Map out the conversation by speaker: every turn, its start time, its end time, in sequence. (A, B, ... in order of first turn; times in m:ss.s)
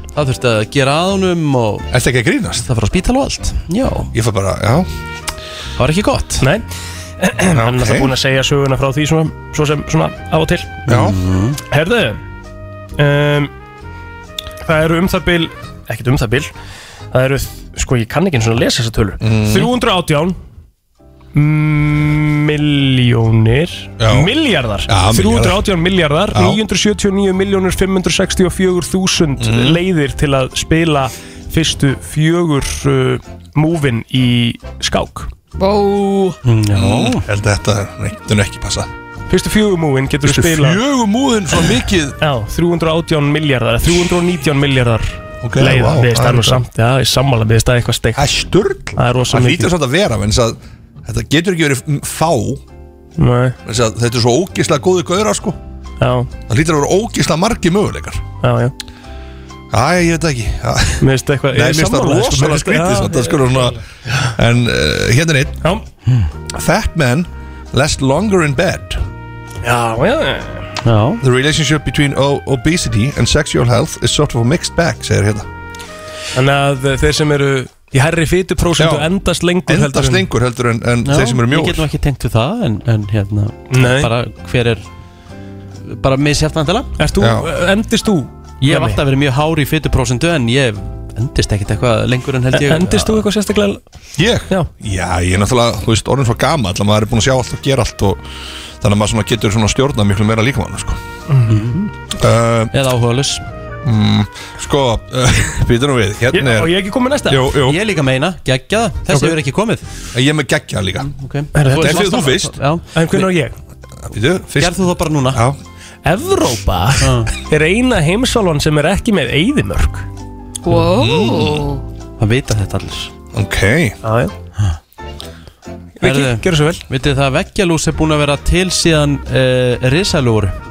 0:00.1-0:01.9 A
0:01.9-0:02.6 B
0:02.6-0:04.1 A
0:04.1-0:04.9 B
0:05.8-0:06.4 A
0:06.4-0:06.6 C
0:07.2-0:10.8 C
0:07.4-0:08.1 B
0:10.9-0:11.6 A
0:10.9-0:11.2 B
0:11.7-0:12.2 C
0:13.0-0:13.5 C
0:14.6-0:16.5 C
0:17.1-0:20.4 C
0:19.2-0:19.7 B
0:21.3-0:35.3 C
0:24.0-0:24.3 B
0:24.9-0:25.6 B
0:26.3-0:26.6 B
0:29.4-0:29.8 B
0:35.6-0:36.4 D
0:36.4-0:37.3 A
0:36.7-0:38.9 B
0:39.3-0:40.8 C
0:40.2-0:42.2 B
0:42.2-0:48.3 C
0:45.4-0:46.6 B
0:48.2-0:52.6 B
0:49.0-0:49.7 C
0:53.2-0:53.6 C
0:53.6-0:55.6 B
0:56.0-0:56.3 C
0:56.5-0:58.2 B
0:58.4-0:58.7 C
0:59.7-1:03.8 B
1:01.0-1:03.8 C
1:04.3-1:05.6 B
1:06.5-1:09.0 B
1:09.6-1:10.7 C
1:10.8-1:11.2 A
1:11.2-1:15.5 B
1:16.3-1:20.3 C
1:18.8-1:19.1 B
1:19.6-1:21.8 B
1:21.0-1:24.8 A
1:23.7-1:24.1 C
1:25.8-1:26.9 A
1:27.0-1:29.0 C
1:27.2-1:27.5 B
1:28.6-1:33.3 A
1:32.5-1:33.8 C
1:34.2-1:38.2 B
1:38.8-1:41.0 B
1:41.3-1:41.9 C
1:41.5-1:41.8 A
1:42.2-1:42.7 B
1:42.7-1:43.4 A
1:43.8-1:46.7 B
1:46.3-1:47.5 C
1:47.3-1:47.8 B
1:47.6-1:49.8 A
1:49.1-1:49.4 C
1:50.1-1:51.1 B
1:51.0-1:53.3 A
1:51.5-1:52.3 C
1:51.8-1:52.6 B
1:52.9-1:53.6 C
1:54.1-1:55.6 B
1:54.6-1:55.4 A
1:56.0-2:00.0 C
1:57.0-1:57.3 A
2:00.6-2:01.8 D
2:00.8-2:01.7 B
2:02.2-2:03.1 A
2:03.3-2:04.0 B
2:04.0-2:04.3 C
2:06.0-2:06.8 C
2:06.0-2:10.6 A